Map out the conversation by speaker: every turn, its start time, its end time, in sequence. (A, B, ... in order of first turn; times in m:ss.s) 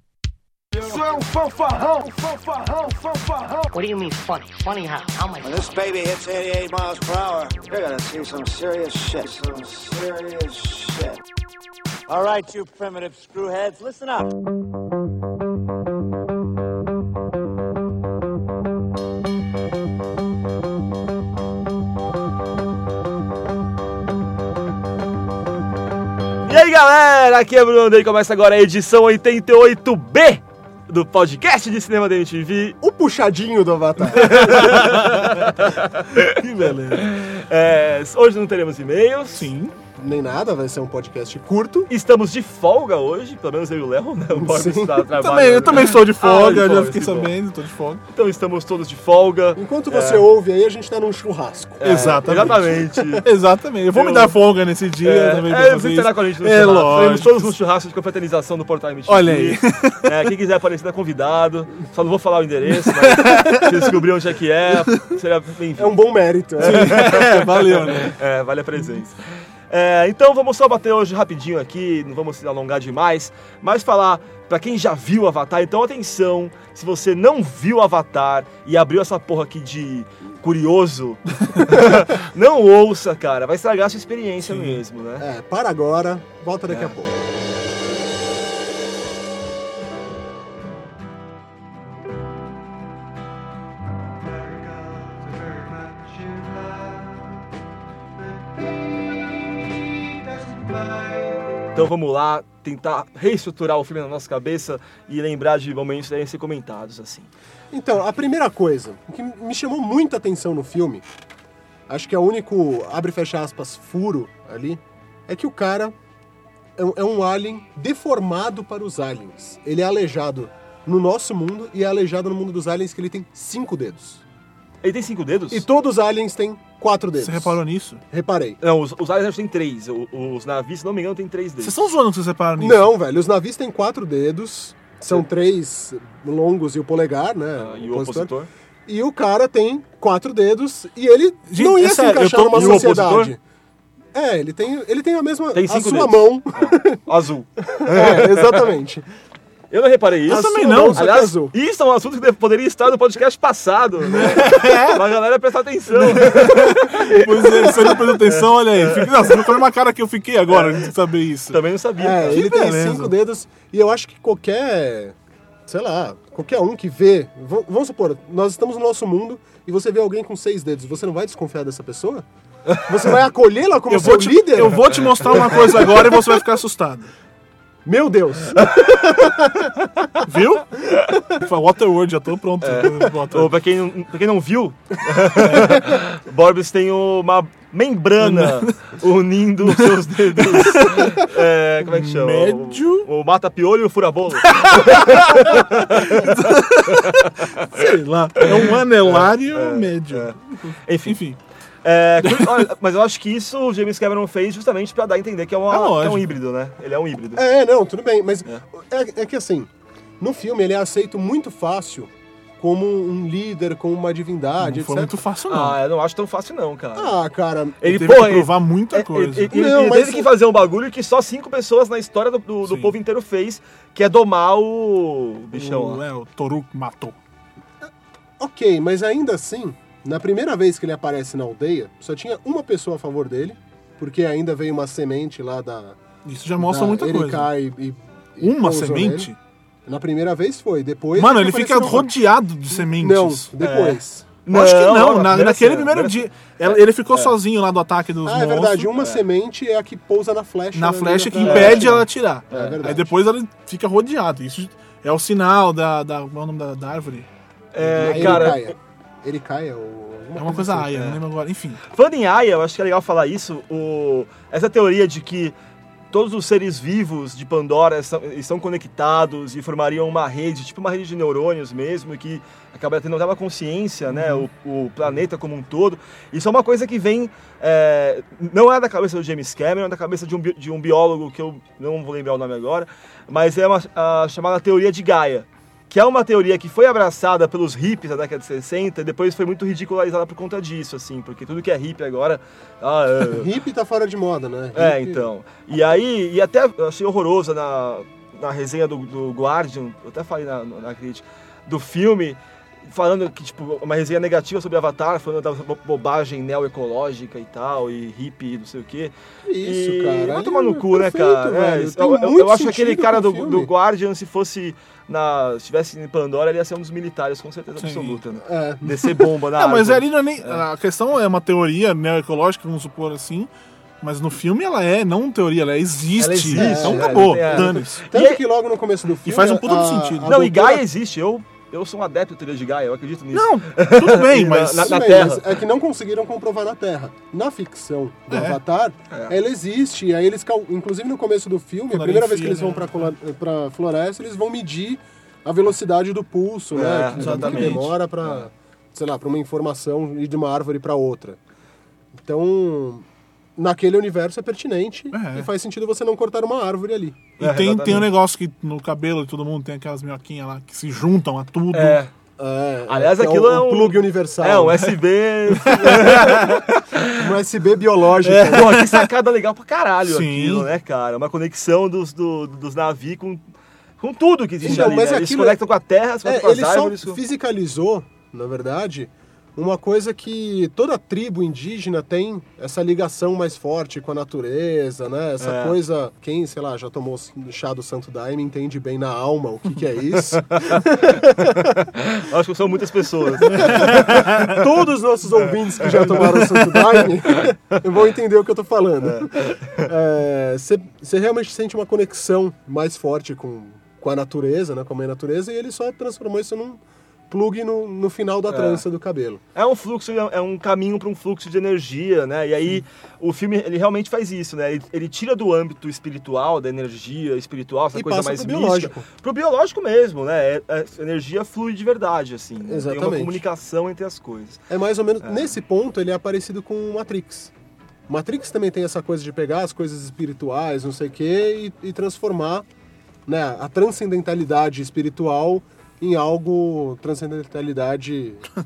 0:00.7-0:03.7 A
0:03.7-0:05.8 B
0:05.4-0:11.2 A
0:12.1-0:14.3 A
0:26.5-0:32.8 C
0:32.8-0:35.1 D
0:34.1-0:39.5 C
0:39.4-0:39.8 E
0:40.0-0:41.9 D
0:41.9-0:47.3 C
0:44.3-0:45.1 D
0:45.2-0:48.0 E
0:48.1-0:50.3 C
0:49.6-0:52.8 D
0:51.8-0:53.3 C
0:51.8-0:57.5 E
0:53.9-0:54.4 C
0:55.0-1:06.0 C
0:59.1-1:00.1 E
1:02.7-1:04.0 E
1:05.8-1:07.0 D
1:06.6-1:08.2 E
1:06.6-1:25.2 C
1:24.5-1:24.8 E
1:25.2-1:27.2 D
1:41.7-1:47.3 C
1:47.7-1:51.0 D
1:51.9-1:56.0 D
1:56.8-2:04.2 D
2:04.8-2:05.7 C
2:05.5-2:08.6 D
2:07.2-2:08.0 E
2:08.6-2:11.8 C
2:11.6-2:12.9 E
2:12.6-2:18.3 D
2:17.6-2:18.5 C
2:18.9-2:23.4 D
2:21.5-2:23.0 E
2:22.6-2:23.3 C
2:24.1-2:27.0 D
2:25.5-2:28.7 C
2:27.6-2:29.0 D
2:29.7-2:39.5 C
2:30.3-2:31.1 E
2:30.3-2:31.5 D
2:34.0-2:35.1 E
2:36.0-2:41.6 E
2:37.0-2:38.0 D
2:40.5-2:40.9 C
2:41.5-2:42.4 C
2:42.0-2:52.2 D
2:42.3-2:43.1 E
2:52.9-2:55.9 D
2:53.9-2:57.1 E
2:55.0-2:55.6 C
2:57.8-3:00.1 D
3:00.2-3:03.5 E
3:02.6-3:17.8 C
3:05.4-3:05.9 E
3:08.2-3:08.8 E
3:09.7-3:13.1 E
3:14.4-3:21.4 E
3:18.4-3:21.2 C
3:21.8-3:27.4 C
3:22.2-3:22.7 E
3:25.7-3:26.4 E
3:27.4-3:35.1 D
3:34.6-3:35.8 E
3:35.5-3:37.2 C
3:37.0-3:37.9 D
3:37.8-3:46.0 C
3:37.8-3:39.5 E
3:39.5-3:40.3 D
3:42.6-3:42.9 E
3:45.5-3:47.2 E
3:47.8-3:56.0 D
3:56.2-3:57.5 E
3:56.6-3:59.3 D
3:58.4-3:59.4 E
3:59.9-4:04.3 D
4:01.2-4:03.5 E
4:03.6-4:07.4 C
4:04.5-4:09.0 E
4:08.2-4:13.2 D
4:10.7-4:17.3 E
4:11.4-4:11.9 C
4:12.5-4:12.8 C
4:17.7-4:18.7 C
4:17.8-4:18.6 E
4:18.0-4:21.0 D
4:20.4-4:21.8 E
4:21.8-4:25.6 C
4:26.1-4:53.5 C
4:34.1-4:34.4 E
4:53.2-4:55.3 D
4:54.8-5:20.6 C
5:09.4-5:13.7 D
5:17.8-5:18.2 E
5:18.4-5:19.2 D
5:19.5-5:23.5 E
5:24.0-5:28.0 E
5:26.2-5:28.4 C
5:26.5-5:30.8 D
5:29.2-5:30.3 E
5:30.3-5:35.6 C
5:33.3-5:35.1 E
5:34.8-5:51.4 D
5:38.3-5:38.6 E
5:41.9-5:43.1 E
5:46.7-5:48.3 C
5:47.1-5:47.9 E
5:52.2-5:57.2 D
5:55.1-5:55.5 E
5:57.4-5:58.1 C
5:57.4-6:02.0 E
6:01.7-6:02.1 C
6:02.4-6:05.0 D
6:02.9-6:07.2 C
6:05.7-6:06.4 E
6:05.9-6:06.4 D
6:07.1-6:08.8 D
6:08.2-6:09.0 E
6:08.5-6:13.4 C
6:10.0-6:10.7 E
6:14.0-6:17.2 C
6:14.6-6:15.6 D
6:16.2-6:31.8 D
6:25.4-6:25.8 C
6:31.5-6:34.6 C
6:33.4-6:49.4 D
6:33.6-6:34.3 E
6:35.8-6:36.3 C
6:39.1-6:39.9 C
6:48.5-6:48.8 C
6:49.6-7:04.6 C
6:57.9-6:59.1 D
7:02.6-7:03.4 D
7:04.7-7:07.5 D
7:05.2-7:05.5 C
7:08.1-7:12.7 D
7:13.3-7:18.5 D